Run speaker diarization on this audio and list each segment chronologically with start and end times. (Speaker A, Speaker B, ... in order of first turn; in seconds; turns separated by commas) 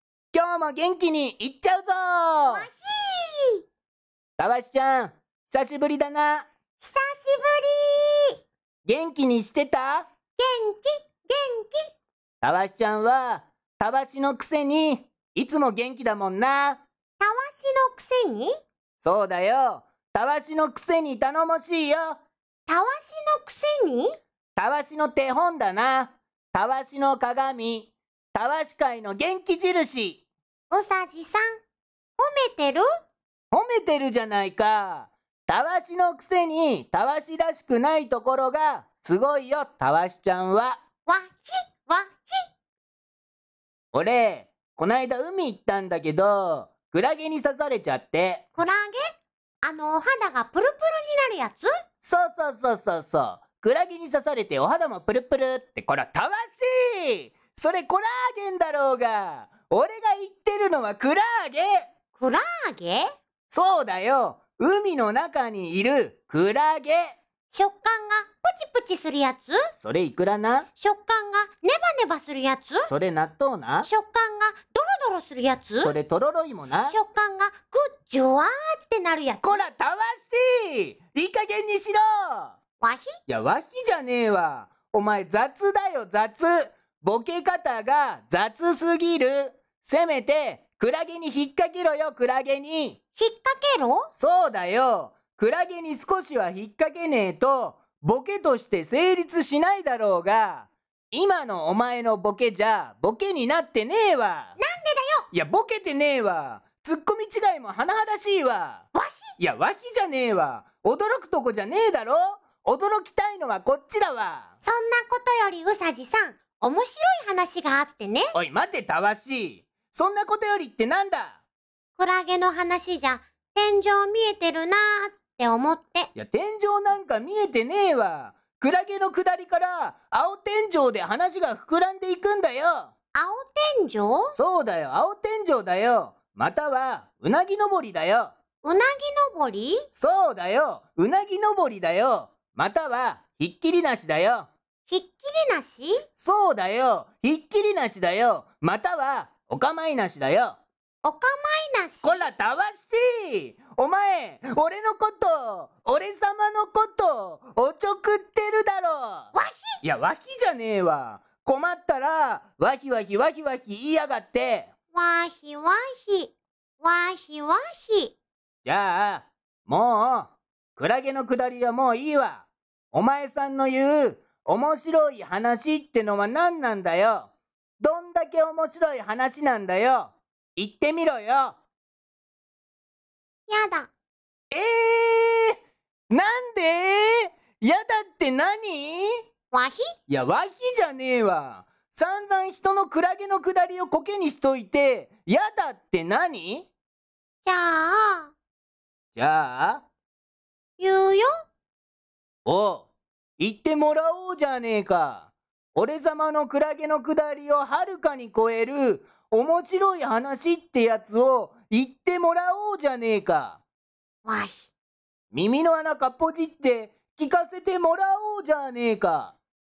Speaker A: 0.3-2.7, Speaker B: 2.5-3.6, Speaker A: 4.4-6.5, Speaker B: 6.8-8.4, Speaker A: 8.9-10.1, Speaker B: 10.4-11.9, Speaker A: 12.4-16.8, Speaker B: 17.2-18.5, Speaker A: 19.0-22.2, Speaker B: 22.7-24.2, Speaker A: 24.6-30.2, Speaker B: 30.7-31.4, Speaker B: 32.2-32.9, Speaker A: 33.5-40.8, Speaker B: 41.1-42.4, Speaker A: 43.9-48.4, Speaker B: 48.5-49.0, Speaker B: 49.6-51.7, Speaker A: 52.0-61.8, Speaker B: 62.1-63.1, Speaker A: 63.5-67.2, Speaker B: 67.5-69.6, Speaker A: 69.8-70.7, Speaker B: 70.8-72.9, Speaker A: 72.8-73.9, Speaker B: 73.8-75.9, Speaker A: 75.8-76.9, Speaker B: 76.8-79.7, Speaker A: 79.4-82.6, Speaker B: 82.8-83.1, Speaker A: 83.3-93.0, Speaker B: 93.2-94.1, Speaker A: 94.2-104.6, Speaker B: 104.6-105.3, Speaker A: 105.3-108.9, Speaker B: 109.0-109.2, Speaker A: 109.4-114.5, Speaker B: 114.6-118.3, Speaker A: 118.3-121.4, Speaker B: 122.0-126.1, Speaker A: 126.2-132.9, Speaker B: 133.2-134.3, Speaker A: 134.3-138.3, Speaker B: 138.6-139.8, Speaker A: 140.0-144.5, Speaker B: 144.9-146.0, Speaker A: 146.2-150.6, Speaker B: 151.0-152.3, Speaker A: 152.0-164.7, Speaker B: 159.3-159.8, Speaker B: 164.9-168.2, Speaker A: 168.6-181.6, Speaker B: 183.5-183.9, Speaker A: 184.5-185.6, Speaker A: 186.1-189.2, Speaker B: 189.5-189.8, Speaker A: 190.1-196.7, Speaker B: 197.4-198.3, Speaker A: 199.2-199.8, Speaker B: 200.8-201.3, Speaker A: 202.5-213.6, Speaker B: 214.2-214.7, Speaker A: 215.3-219.3